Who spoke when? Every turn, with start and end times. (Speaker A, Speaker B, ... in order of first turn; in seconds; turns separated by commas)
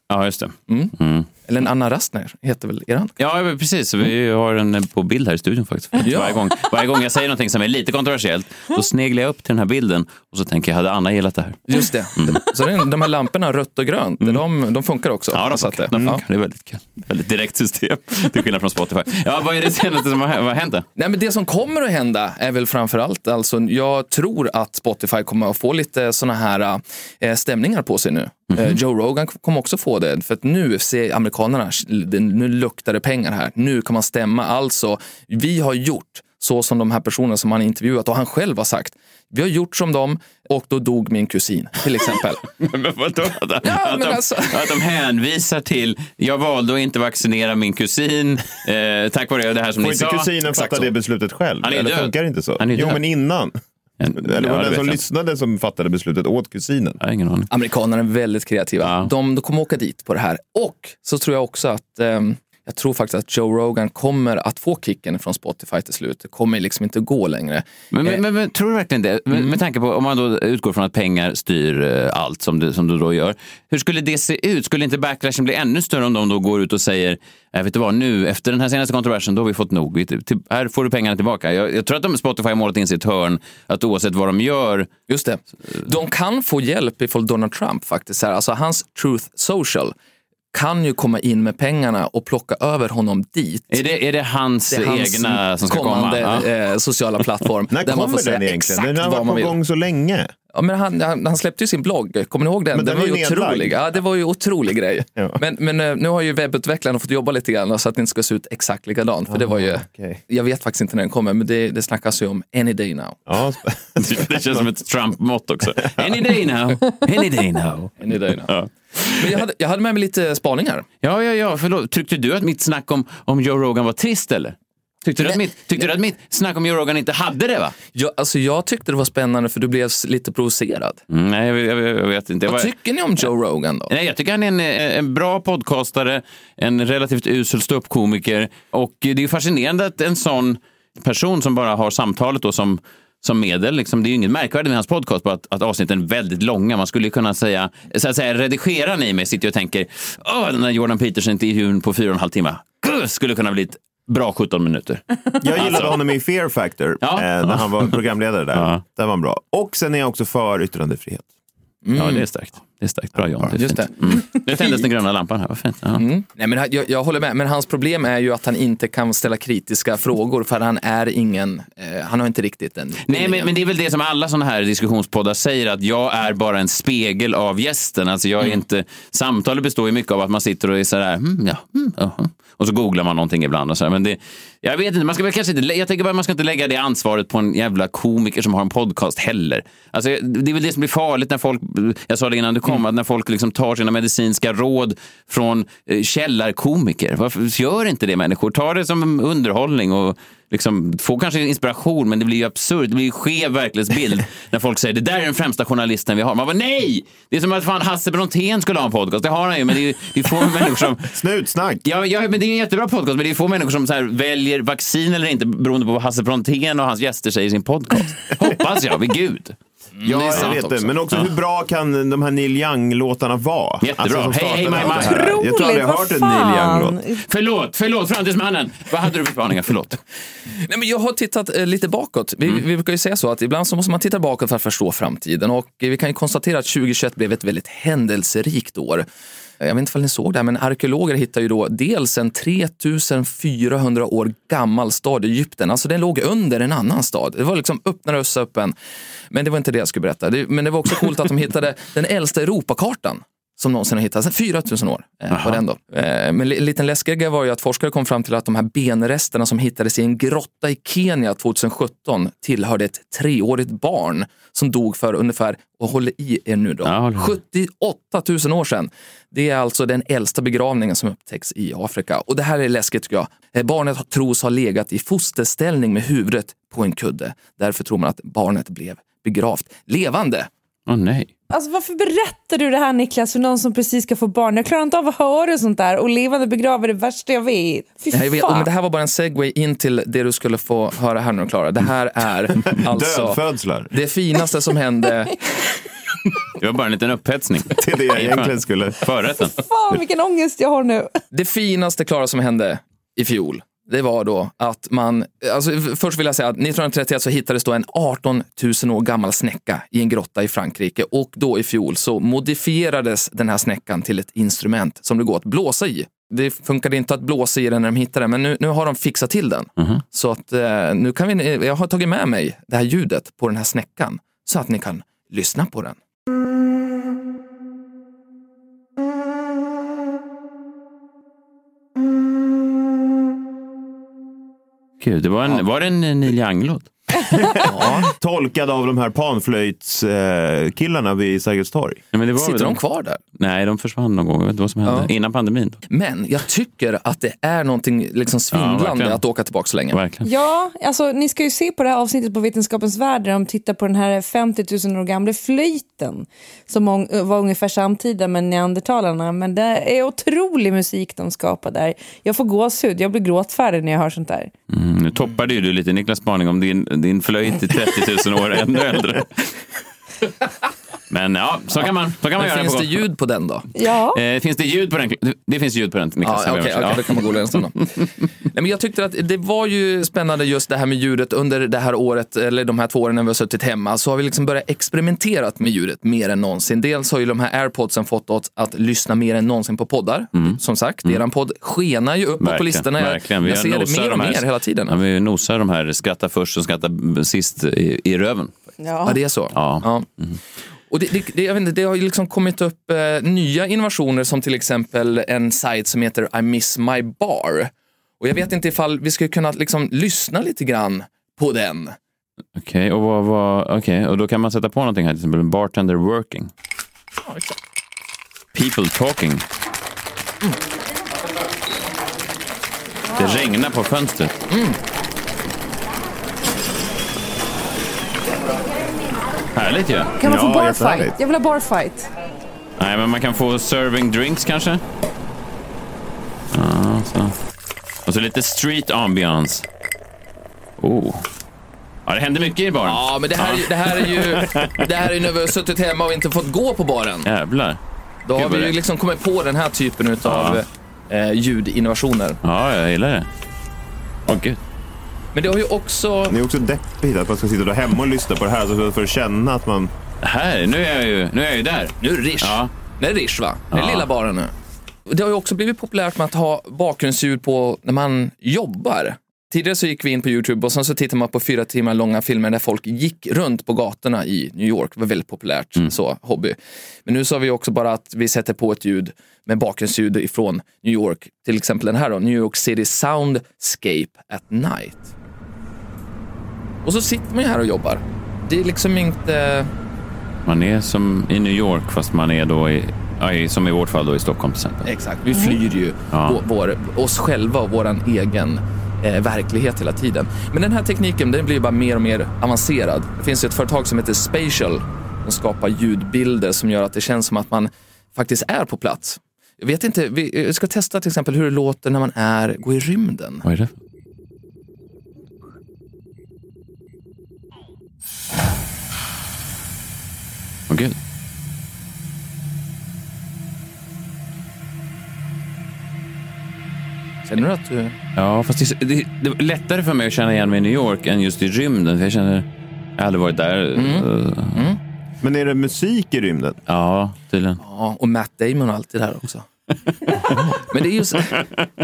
Speaker A: 0.1-1.3, Speaker B: 0.7-0.9, Speaker B: 1.4-3.1, Speaker A: 3.2-11.7, Speaker B: 6.0-6.5, Speaker B: 11.7-16.2, Speaker A: 12.2-12.5, Speaker A: 15.3-20.9, Speaker B: 21.0-42.4, Speaker A: 42.6-50.9, Speaker B: 43.6-44.8, Speaker C: 49.8-53.6, Speaker A: 51.6-53.0, Speaker A: 54.0-55.0, Speaker C: 54.1-57.0, Speaker A: 57.0-57.5, Speaker B: 57.5-68.2, Speaker A: 58.8-59.1, Speaker A: 67.9-84.9, Speaker B: 69.3-69.6, Speaker B: 85.1-89.9, Speaker B: 90.5-93.8, Speaker A: 93.7-96.5, Speaker B: 94.7-99.6, Speaker C: 97.7-100.3, Speaker B: 100.5-113.2, Speaker C: 102.7-103.8, Speaker C: 109.3-110.2, Speaker C: 113.3-114.6, Speaker A: 114.0-119.2, Speaker B: 118.0-118.5, Speaker B: 119.1-120.9, Speaker A: 121.0-127.8, Speaker B: 125.2-125.8, Speaker B: 127.9-131.0, Speaker A: 131.1-132.7, Speaker B: 132.4-133.9, Speaker A: 133.9-156.0, Speaker C: 155.4-161.3, Speaker A: 157.0-158.0, Speaker A: 158.5-158.8, Speaker B: 161.8-162.3, Speaker A: 162.0-166.0, Speaker B: 163.4-164.0, Speaker B: 165.9-173.5, Speaker A: 173.0-211.1, Speaker C: 211.1-211.8, Speaker A: 211.8-219.6, Speaker B: 220.0-220.9, Speaker C: 220.0-227.0, Speaker A: 220.1-221.3, Speaker A: 223.8-225.3, Speaker D: 224.8-227.2, Speaker A: 227.2-230.0, Speaker B: 230.5-239.1, Speaker B: 239.6-248.7, Speaker B: 249.3-280.5, Speaker A: 255.3-255.6, Speaker A: 266.8-267.3, Speaker A: 280.9-281.3, Speaker D: 281.5-288.7, Speaker B: 288.1-295.5, Speaker C: 292.8-293.9, Speaker A: 296.6-299.6, Speaker C: 297.8-299.1, Speaker D: 299.3-301.1, Speaker B: 301.3-326.0, Speaker A: 335.0-337.3, Speaker C: 337.3-342.0, Speaker B: 337.7-338.1, Speaker A: 342.1-342.8, Speaker B: 342.4-343.2, Speaker A: 343.4-345.8, Speaker B: 344.8-345.1, Speaker B: 345.9-350.0, Speaker A: 348.5-349.2, Speaker A: 349.9-350.3, Speaker D: 350.2-364.5, Speaker A: 364.7-369.5, Speaker A: 371.1-373.0, Speaker B: 371.8-373.7, Speaker D: 373.8-374.2, Speaker A: 374.1-377.6, Speaker B: 376.2-395.0, Speaker A: 390.3-391.2, Speaker A: 392.4-398.5, Speaker D: 398.8-399.2, Speaker B: 399.0-400.1, Speaker A: 399.5-400.4, Speaker B: 400.9-412.0, Speaker A: 412.6-416.5, Speaker A: 418.5-419.4, Speaker A: 423.1-424.3, Speaker B: 424.5-424.8, Speaker A: 429.6-430.2, Speaker D: 430.2-432.1, Speaker C: 430.2-431.2, Speaker A: 432.8-434.8, Speaker A: 436.5-437.3, Speaker A: 438.1-439.7, Speaker A: 440.8-441.2, Speaker A: 442.1-444.8, Speaker B: 442.8-447.3, Speaker A: 447.2-447.8, Speaker B: 448.3-452.4, Speaker A: 448.3-448.7, Speaker A: 450.2-450.6, Speaker A: 452.4-453.3, Speaker A: 454.3-454.6, Speaker B: 455.3-456.4, Speaker C: 456.3-459.9, Speaker A: 460.2-462.7, Speaker B: 462.0-464.5, Speaker A: 463.7-464.1, Speaker B: 465.1-485.1, Speaker B: 486.8-489.7, Speaker A: 490.5-494.9, Speaker B: 494.8-513.5, Speaker A: 496.1-496.4, Speaker A: 513.5-513.7, Speaker A: 520.7-521.0, Speaker B: 527.2-528.0, Speaker A: 528.2-532.5, Speaker A: 533.0-534.7, Speaker B: 533.8-534.8, Speaker C: 535.2-536.6, Speaker A: 536.7-537.6, Speaker B: 537.6-539.5, Speaker B: 540.3-541.5